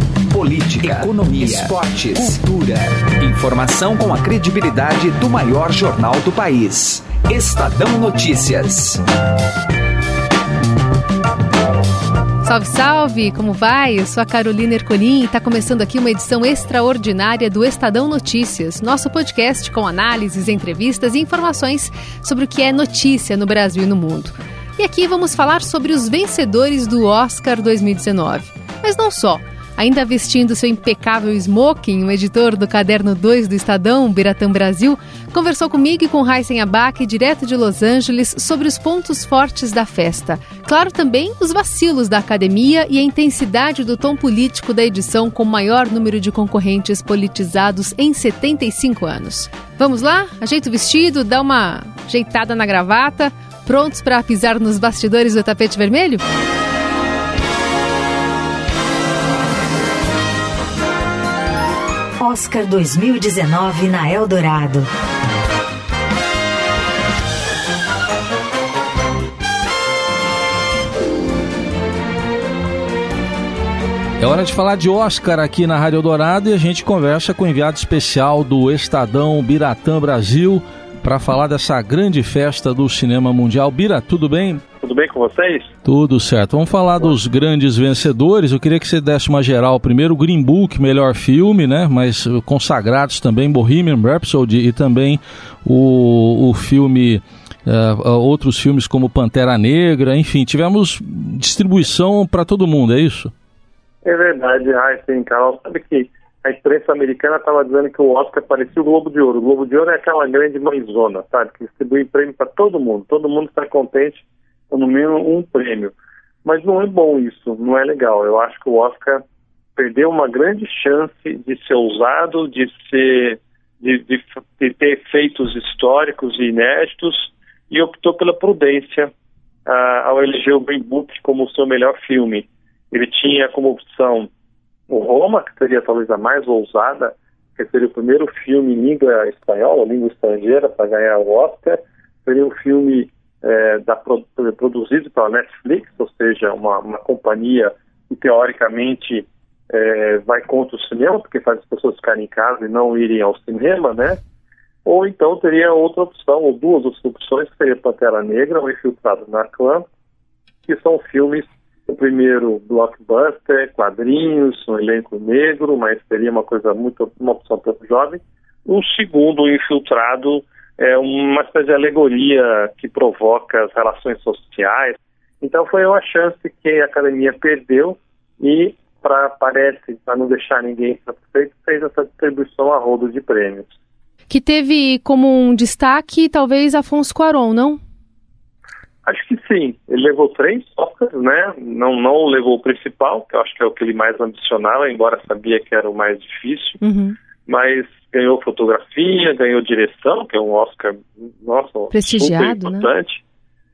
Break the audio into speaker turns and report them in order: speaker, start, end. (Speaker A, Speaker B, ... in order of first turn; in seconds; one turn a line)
Speaker A: 0.3-9.0
Speaker B: 12.4-56.2
Speaker C: 62.2-64.9
Speaker D: 74.2-84.6
Speaker E: 84.8-85.7
Speaker D: 85.8-103.3
Speaker E: 104.0-115.9
Speaker E: 116.4-119.2
Speaker E: 119.8-129.1
Speaker E: 129.7-134.3
Speaker E: 134.9-154.2
Speaker E: 154.8-159.8
Speaker E: 160.7-183.7
Speaker B: 184.3-187.8
Speaker E: 189.0-196.8
Speaker B: 196.8-197.2
Speaker E: 197.5-203.2
Speaker B: 201.9-202.9